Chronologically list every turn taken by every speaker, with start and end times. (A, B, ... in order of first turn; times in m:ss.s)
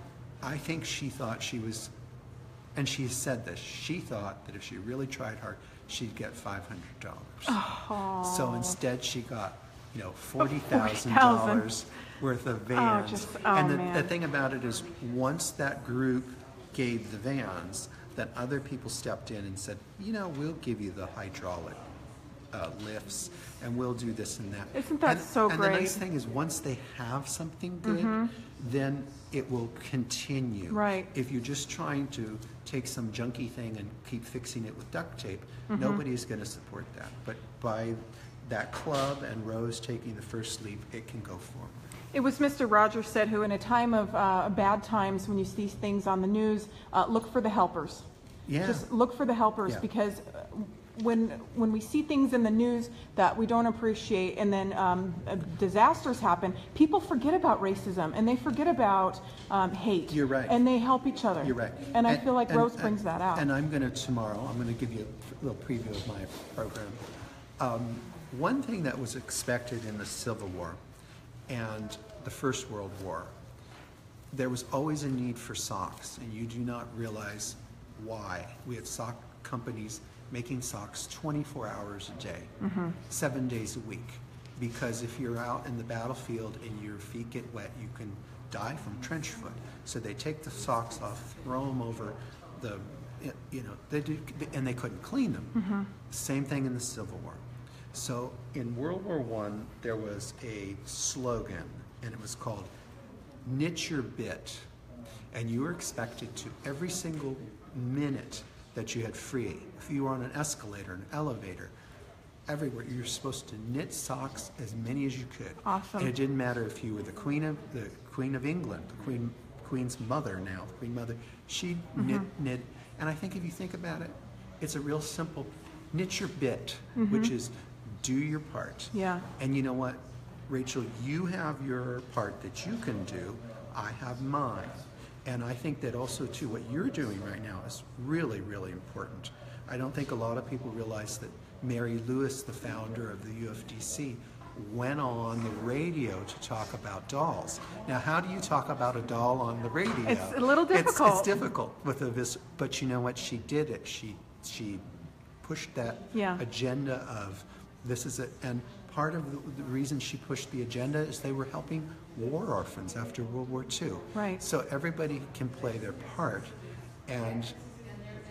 0:00.4-0:01.9 A
0:02.7-0:07.6 A
0:07.5-0:08.8 B
0:08.2-0:21.8 A
0:10.4-0:11.7 B
0:12.7-0:14.1 B
0:22.5-0:41.9 A
0:24.7-0:26.0 B
0:27.8-0:28.3 B
0:30.7-0:31.1 B
0:35.7-0:36.0 B
0:42.1-0:48.0 B
0:48.5-0:48.8 A
0:48.6-1:03.5 B
1:00.1-1:00.6 A
1:01.4-1:07.0 A
1:07.6-1:10.8 A
1:11.5-1:13.3 A
1:14.3-1:22.5 A
1:22.6-1:23.0 B
1:23.1-1:42.7 A
1:35.6-1:35.9 B
1:43.4-1:44.7 A
1:45.3-1:51.7 A
1:52.5-2:34.8 A
1:55.6-1:56.1 B
2:07.0-2:07.3 B
2:08.9-2:09.2 B
2:30.0-2:31.3 B
2:35.4-2:46.5 A
2:36.1-2:36.4 B
2:44.1-2:44.4 B
2:47.1-2:47.5 A